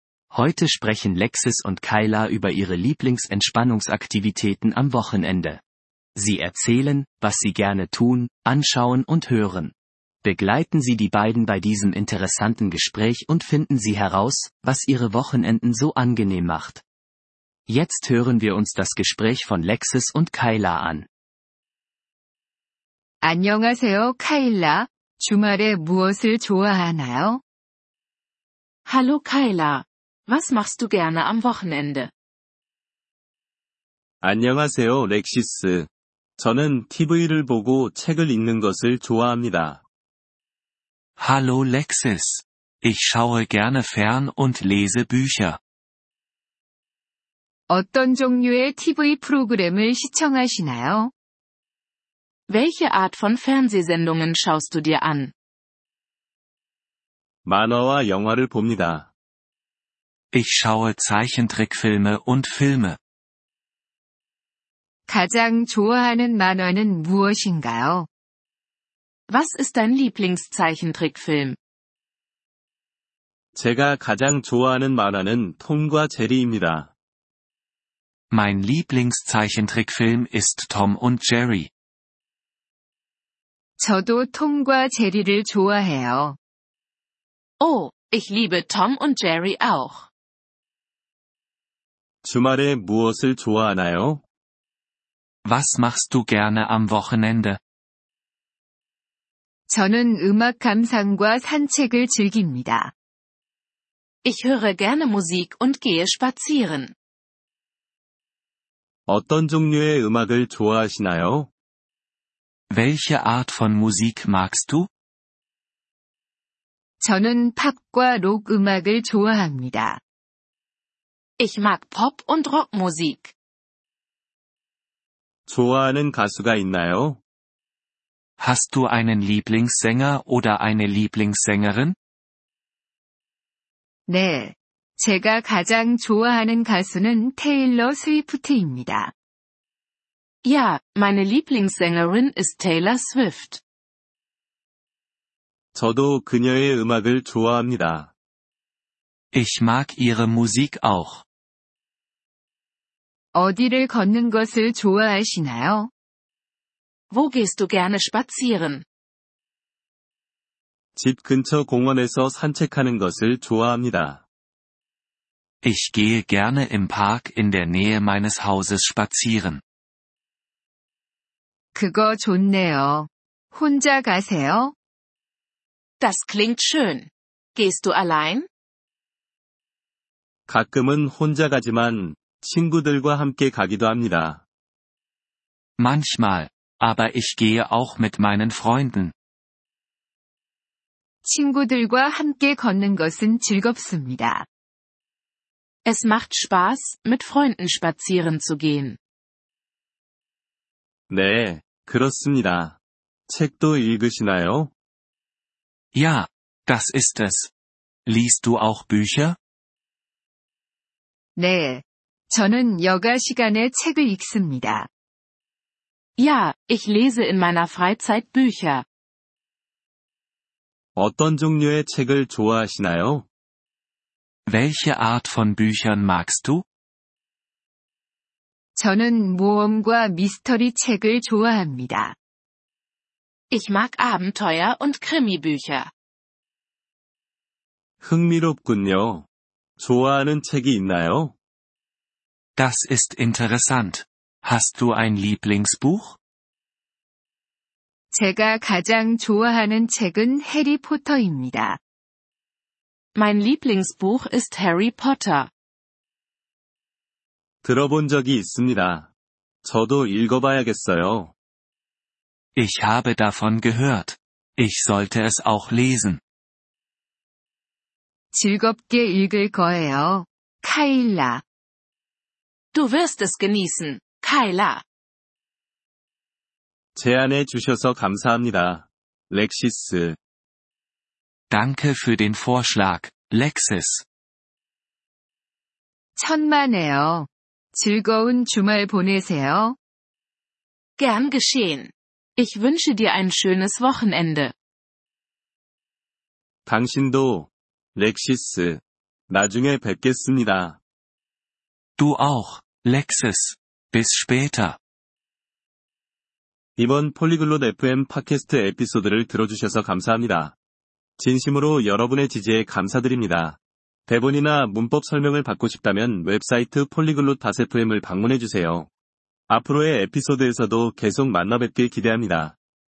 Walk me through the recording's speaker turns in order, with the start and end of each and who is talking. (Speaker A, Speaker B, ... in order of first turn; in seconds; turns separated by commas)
Speaker A: 0.3-5.6, Speaker A: 6.2-16.8, Speaker A: 17.7-21.1, Speaker B: 23.2-27.4, Speaker C: 28.9-32.1, Speaker D: 34.2-39.8, Speaker E: 41.2-45.6, Speaker B: 47.7-51.1, Speaker C: 52.5-55.3, Speaker D: 57.5-59.1, Speaker E: 60.3-63.0, Speaker B: 65.1-68.1, Speaker C: 69.3-71.6, Speaker D: 73.5-76.9, Speaker E: 78.3-81.7, Speaker B: 83.8-86.4, Speaker C: 87.6-90.1, Speaker D: 92.2-94.2, Speaker E: 95.5-97.6, Speaker B: 99.7-102.9, Speaker C: 104.2-106.9, Speaker D: 109.1-111.5, Speaker E: 112.7-114.9, Speaker B: 117.0-120.0, Speaker C: 121.4-123.3, Speaker D: 125.5-127.2, Speaker E: 128.4-132.0, Speaker B: 134.1-139.1, Speaker C: 140.4-143.6, Speaker D: 145.8-148.1, Speaker E: 149.3-151.2, Speaker B: 153.3-155.9, Speaker C: 157.1-158.8, Speaker D: 161.0-164.2, Speaker E: 165.6-169.6, Speaker B: 171.8-174.7, Speaker C: 176.0-178.5, Speaker D: 180.5-184.4, Speaker E: 185.8-189.1, Speaker B: 191.2-194.5, Speaker C: 195.8-199.0, Speaker D: 201.1-204.7, Speaker E: 205.9-207.5, Speaker E: 208.1-209.4, Speaker B: 211.4-214.9, Speaker C: 216.2-218.8, Speaker D: 221.0-223.3, Speaker E: 224.5-226.7, Speaker B: 228.8-232.2, Speaker C: 233.5-235.9, Speaker D: 238.0-239.3, Speaker D: 239.8-241.3, Speaker E: 242.6-246.2, Speaker B: 248.1-251.8, Speaker C: 253.2-255.5, Speaker D: 257.6-259.1, Speaker D: 259.6-261.3, Speaker E: 262.6-266.2, Speaker B: 268.3-271.4, Speaker C: 272.7-274.8, Speaker D: 277.0-280.2, Speaker E: 281.5-284.1, Speaker B: 286.2-289.8, Speaker C: 291.0-294.5, Speaker D: 296.7-300.8, Speaker E: 302.0-304.8, Speaker D: 306.8-310.6, Speaker D: 311.2-318.9, Speaker D: 319.5-322.6